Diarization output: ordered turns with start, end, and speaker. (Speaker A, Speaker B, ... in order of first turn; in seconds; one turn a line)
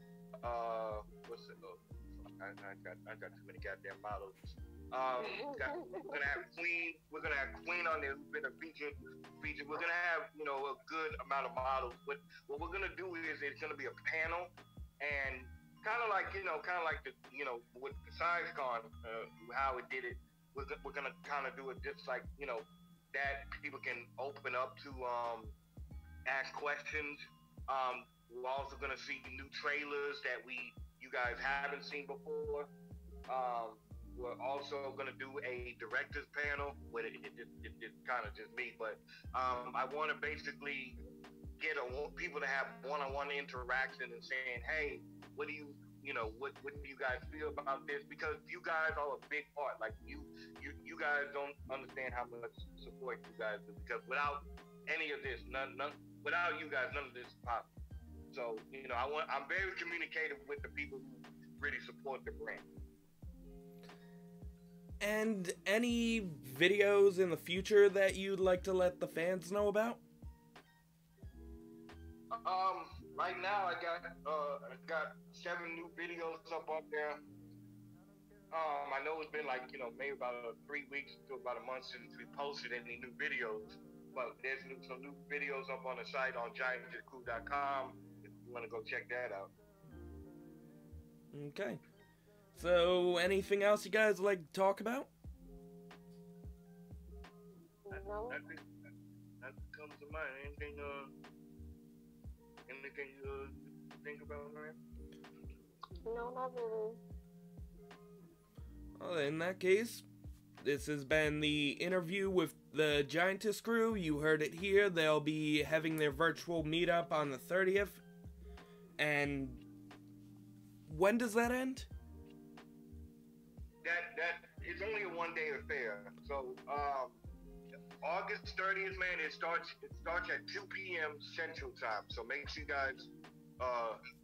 Speaker A: 0.4-25.6
Speaker B: 5.2-6.1
Speaker A: 26.2-32.7
Speaker A: 33.3-41.0
Speaker A: 41.6-57.7
Speaker A: 58.3-62.7
Speaker C: 65.0-70.0
Speaker A: 72.4-77.2
Speaker A: 78.5-89.5
Speaker C: 91.3-91.8
Speaker C: 92.6-95.1
Speaker B: 97.8-98.4
Speaker A: 97.9-98.6
Speaker A: 99.4-101.1
Speaker A: 102.7-104.8
Speaker B: 106.0-107.0
Speaker C: 109.0-110.0
Speaker C: 110.6-118.0
Speaker C: 119.0-119.6
Speaker C: 120.9-121.9
Speaker A: 123.8-127.2
Speaker A: 128.0-134.0